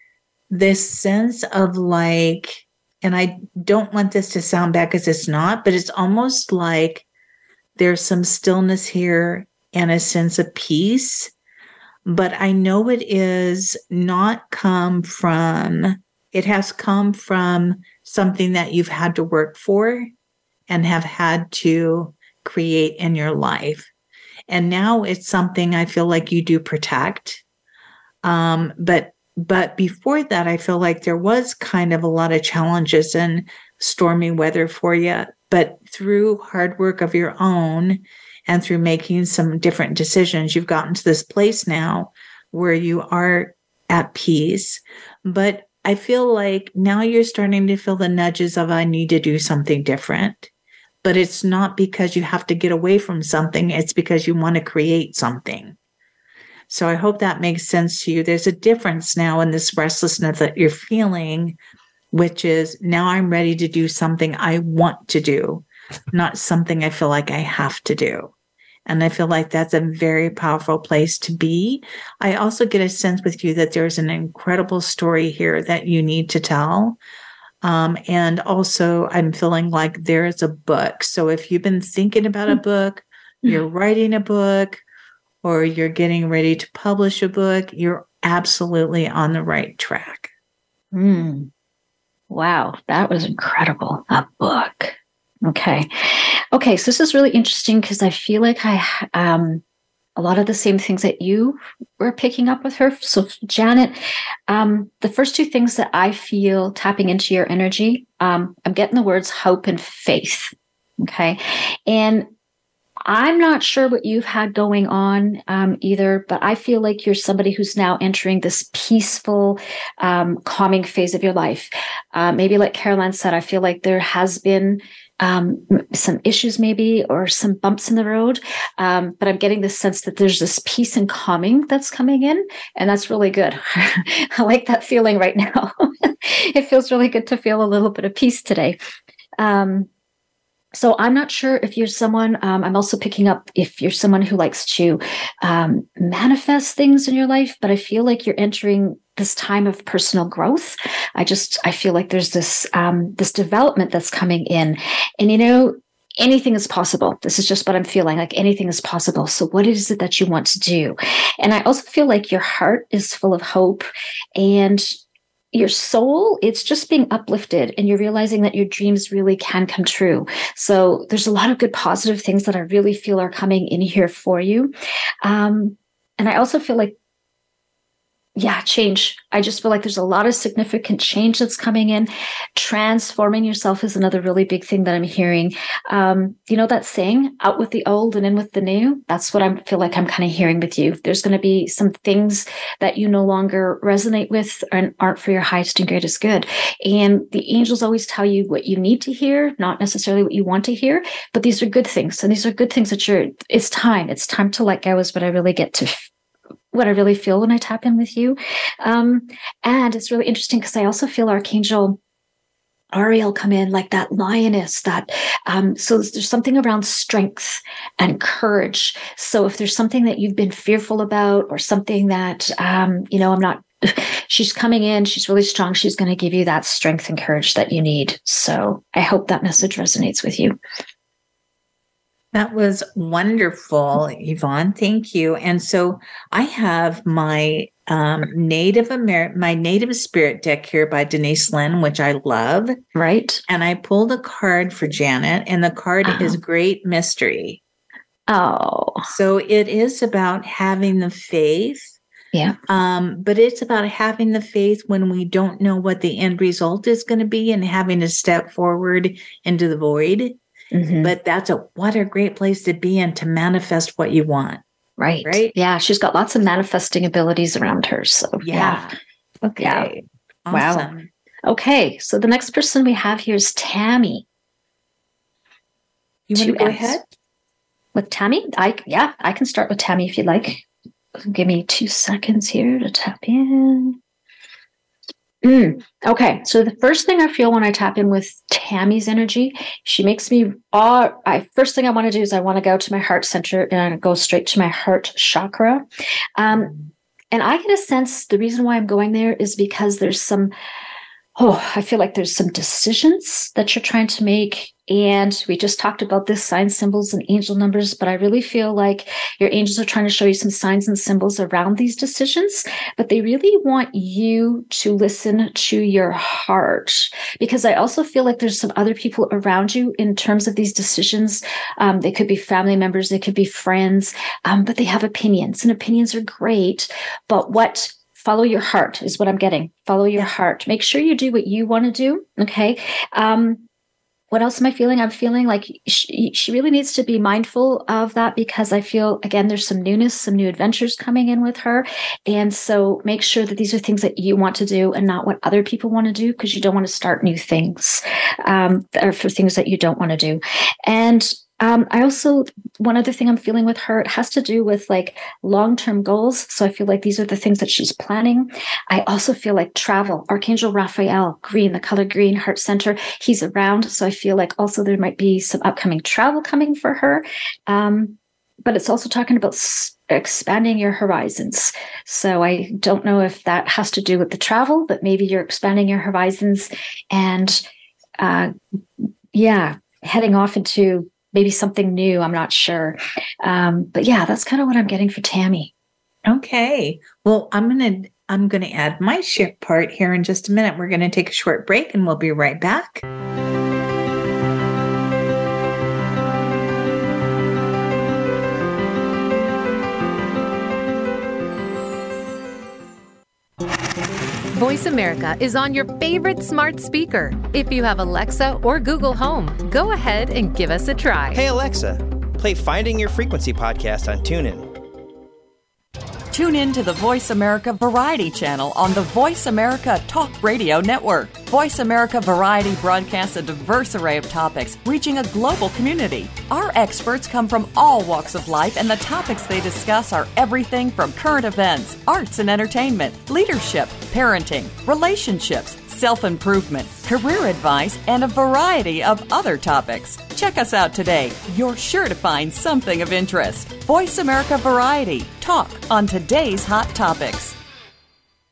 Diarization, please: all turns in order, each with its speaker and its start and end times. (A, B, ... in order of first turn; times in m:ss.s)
0:00.5-0:07.0 A
0:07.8-0:11.3 A
0:12.1-0:20.1 A
0:20.7-0:23.9 A
0:24.5-0:27.4 A
0:28.2-0:50.5 A
0:51.0-0:55.8 A
0:56.7-1:01.6 A
1:02.1-1:08.3 A
1:08.9-1:17.0 A
1:17.6-1:24.8 A
1:25.4-1:30.3 A
1:30.9-1:31.5 B
1:32.3-1:39.6 B
1:40.2-1:44.0 B
1:44.5-1:52.3 B
1:53.0-2:18.8 B
2:19.4-2:19.9 B
2:20.7-2:45.0 B
2:45.5-2:54.7 B
2:55.2-2:57.0 B
2:58.4-3:26.1 B
3:26.7-3:32.0 B
3:32.9-3:50.6 B
3:52.3-4:02.8 A
4:03.0-4:03.4 B
4:03.5-4:07.6 A
4:06.0-4:06.4 B
4:08.3-4:09.1 B
4:09.1-4:12.0 A
4:12.7-4:20.4 A
4:20.7-4:21.1 B
4:21.0-4:24.6 A
4:25.0-4:29.0 B
4:25.2-4:25.5 A
4:28.4-4:28.9 A
4:29.4-4:31.1 A
4:29.6-4:29.9 B
4:30.5-4:30.9 B
4:31.5-4:34.2 B
4:36.3-4:37.0 A
4:36.4-4:37.0 B
4:38.0-4:40.6 B
4:41.2-4:44.0 B
4:45.4-4:55.8 B
4:56.4-4:56.8 B
4:57.3-5:00.5 B
5:01.4-5:33.6 B
5:34.3-6:17.6 B
6:18.2-6:25.7 B
6:26.3-6:33.0 A
6:44.5-6:51.4 C
6:51.3-6:54.7 D
6:56.3-7:27.6 E